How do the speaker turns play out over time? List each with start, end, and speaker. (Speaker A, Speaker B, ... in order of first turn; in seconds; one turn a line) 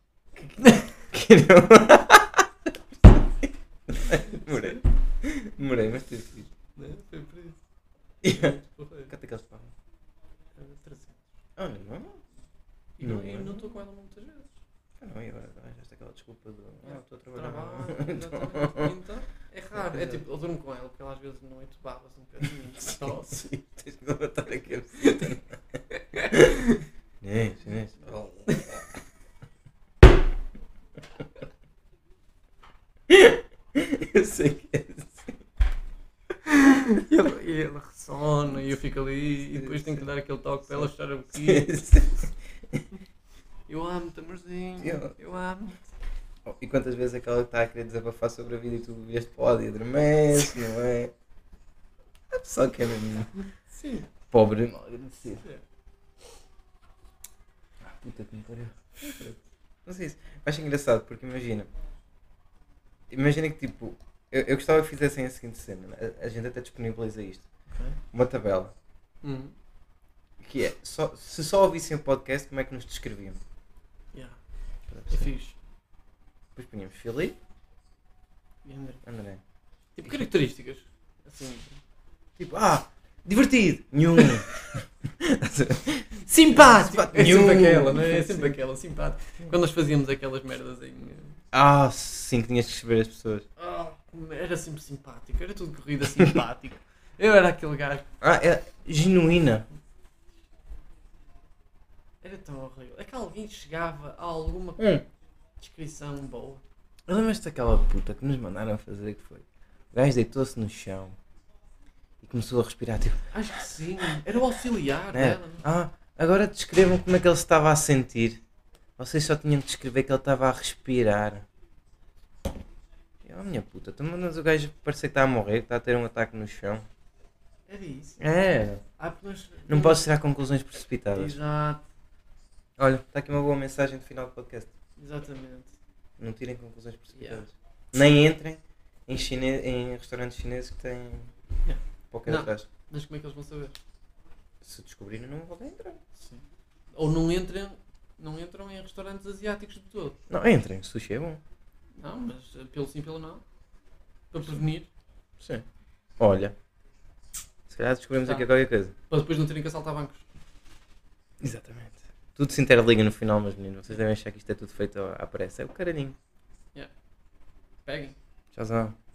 Speaker A: 0.6-0.9
Speaker B: 1.1-6.5
Speaker A: 4.3-4.8
Speaker A: 6.8-7.6
Speaker B: 8.2-8.6
Speaker A: 8.2-9.1
Speaker B: 9.1-9.7
Speaker A: 10.6-11.3
Speaker B: 11.6-12.2
Speaker A: 13.0-14.6
Speaker B: 13.0-13.7
Speaker B: 15.0-18.9
Speaker A: 16.9-23.4
Speaker B: 19.8-20.2
Speaker B: 22.8-25.6
Speaker A: 25.0-25.4
Speaker A: 26.0-26.8
Speaker B: 27.2-28.7
Speaker B: 33.1-35.4
Speaker A: 36.5-41.8
Speaker B: 39.5-40.0
Speaker B: 41.3-42.8
Speaker A: 43.7-45.9
Speaker B: 44.8-45.1
Speaker B: 46.5-51.1
Speaker B: 52.3-53.3
Speaker A: 53.7-54.1
Speaker B: 54.3-55.4
Speaker B: 57.8-61.7
Speaker B: 63.1-67.5
Speaker A: 67.7-68.0
Speaker B: 68.1-68.7
Speaker A: 69.2-69.5
Speaker B: 70.4-73.4
Speaker B: 74.9-75.3
Speaker A: 75.1-75.6
Speaker B: 76.6-77.4
Speaker A: 78.7-79.0
Speaker B: 79.0-79.4
Speaker A: 80.0-81.8
Speaker B: 82.4-88.6
Speaker A: 86.2-91.4
Speaker B: 91.5-93.5
Speaker A: 93.6-98.1
Speaker B: 98.2-99.7
Speaker A: 102.2-105.0
Speaker B: 104.8-105.0
Speaker A: 105.6-106.6
Speaker B: 107.1-111.2
Speaker B: 112.2-113.2
Speaker A: 113.3-115.7
Speaker B: 115.1-118.4
Speaker B: 119.0-121.5
Speaker B: 123.2-126.9
Speaker A: 127.7-128.2
Speaker B: 128.2-128.8
Speaker A: 129.0-130.0
Speaker B: 129.7-131.4
Speaker A: 131.1-131.8
Speaker B: 132.8-134.7
Speaker A: 135.0-135.8
Speaker B: 136.2-141.3
Speaker A: 137.2-137.4
Speaker A: 141.7-143.8
Speaker B: 142.1-142.7
Speaker B: 144.6-146.0
Speaker A: 146.2-146.4
Speaker A: 146.9-150.2
Speaker B: 150.3-151.4
Speaker A: 152.0-153.4
Speaker A: 154.3-154.9
Speaker B: 156.2-156.6
Speaker B: 157.7-158.9
Speaker A: 159.1-160.3
Speaker B: 161.4-166.2
Speaker A: 167.9-168.2
Speaker B: 168.5-169.0